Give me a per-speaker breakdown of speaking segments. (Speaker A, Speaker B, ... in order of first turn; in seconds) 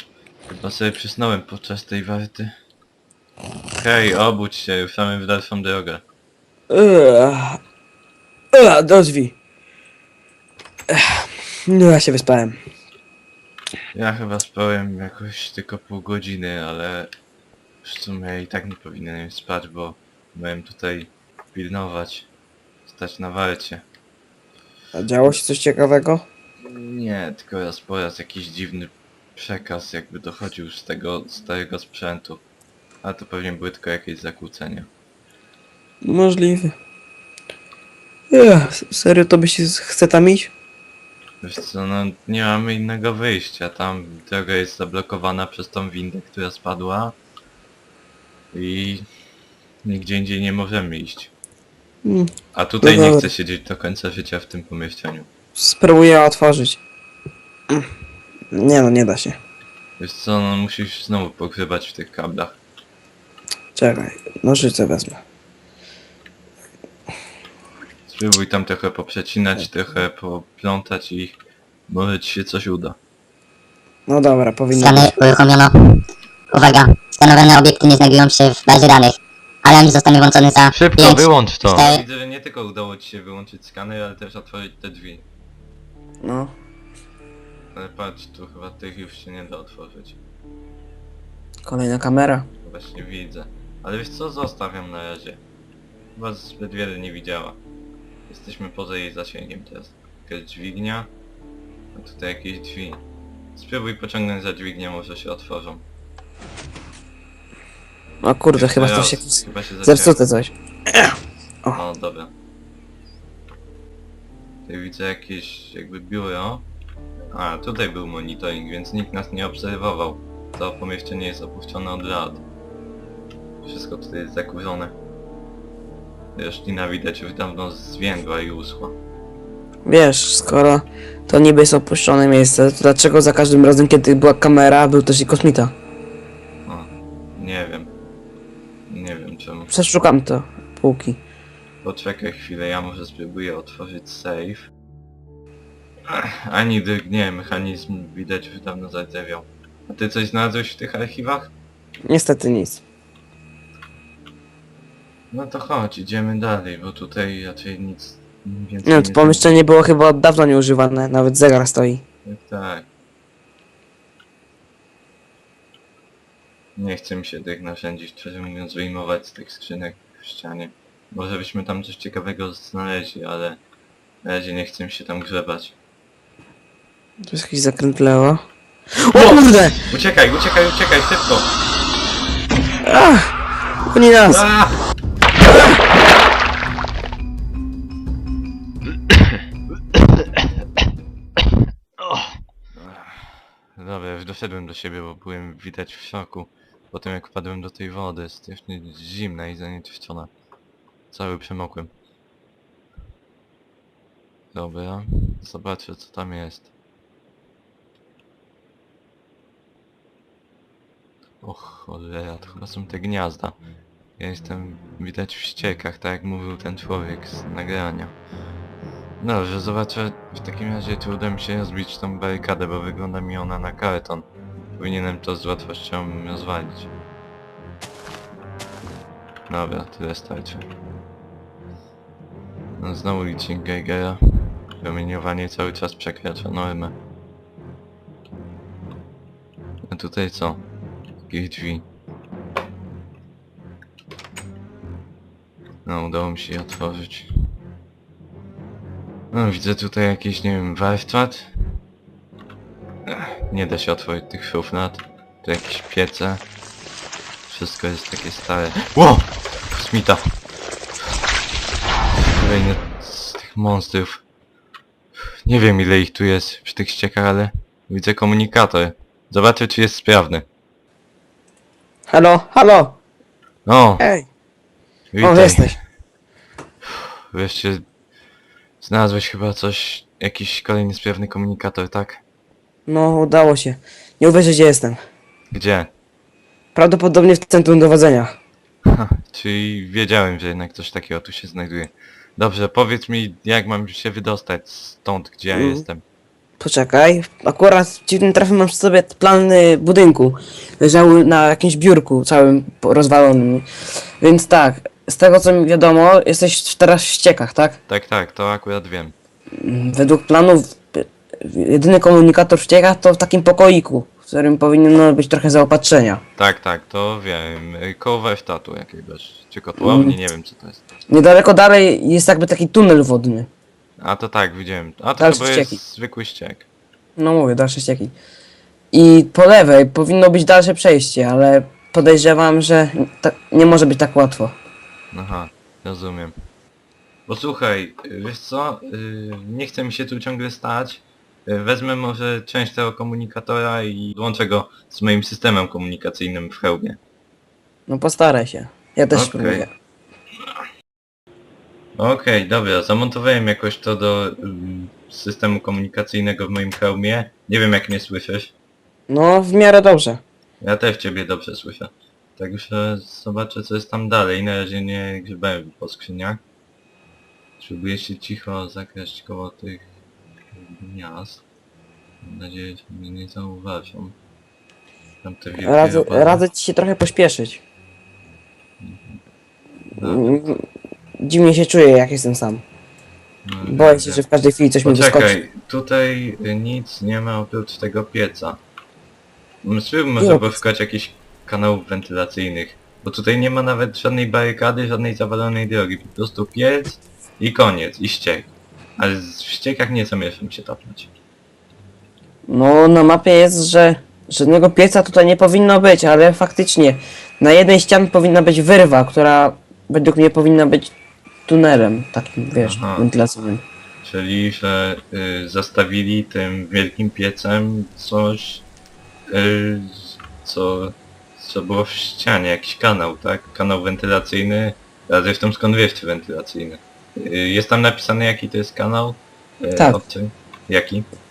Speaker A: 0.5-2.5, 3.8-6.0, 13.9-17.1, 17.8-22.3, 22.9-23.9, 26.6-32.4, 33.0-34.9, 41.4-47.2, 48.5-49.1, 49.9-51.3, 52.5-55.3, 60.0-62.6, 68.1-71.4, 71.9-73.0, 80.7-85.2, 87.7-90.2, 92.6-95.4, 96.2-97.6, 98.3-101.1, 101.9-103.0, 103.5-105.8, 108.5-110.2, 111.7-112.3, 114.7-116.7, 117.3-122.4, 123.6-125.0, 126.3-129.0, 136.7-137.9, 138.9-139.7, 141.8-144.7, 146.1-151.5, 155.3-159.6, 162.2-162.9, 166.8-173.6, 174.2-175.8, 179.9-181.5, 184.3-184.8, 192.8-200.3, 201.1-201.9, 204.5-206.7, 211.4-213.6, 214.2-218.2, 219.2-226.9, 229.5-230.7, 232.8-236.9, 239.9-240.6, 241.3-241.9, 245.8-247.3, 249.3-251.5, 253.1-256.5, 257.5-260.3, 262.3-264.2, 265.4-270.5, 273.7-274.1, 275.1-275.8, 277.3-277.9, 278.8-282.2, 285.5-285.9, 288.9-296.0, 307.9-309.1, 316.4-320.8, 324.0-326.7, 335.1-336.4, 337.3-347.0, 349.1-349.7, 351.9-358.5, 360.6-366.4, 367.6-369.9, 370.5-371.4, 372.2-374.2, 375.2-376.4, 378.8-379.2, 379.9-380.4, 383.4-384.2, 384.8-388.6, 389.6-401.1, 412.6-413.1, 414.0-418.6, 419.3-431.1
Speaker B: 6.7-7.6, 8.5-9.3, 10.9-12.6, 24.9-26.2, 36.0-36.8, 38.3-40.5, 52.0-52.3, 52.8-53.2, 55.6-56.8, 58.5-59.4, 63.8-65.2, 74.1-75.1, 86.2-86.5, 91.7-92.5, 108.2-111.1, 129.8-135.7, 139.7-141.2, 152.1-152.8, 158.8-162.0, 177.3-178.4, 179.0-179.8, 182.8-183.3, 183.9-184.4, 272.1-273.0, 274.0-274.3, 275.2-275.7, 282.9-285.0, 286.8-288.4, 295.5-295.8, 296.6-303.7, 304.2-307.8, 309.6-316.2, 319.8-320.1, 321.1-323.5, 325.2-325.8, 327.2-328.1, 328.9-334.6, 347.9-349.7, 359.1-360.2, 375.6-377.6, 380.0-380.6, 381.2-382.6, 383.6-385.4, 390.2-390.6, 402.5-410.9, 411.5-413.6
Speaker C: 74.7-82.0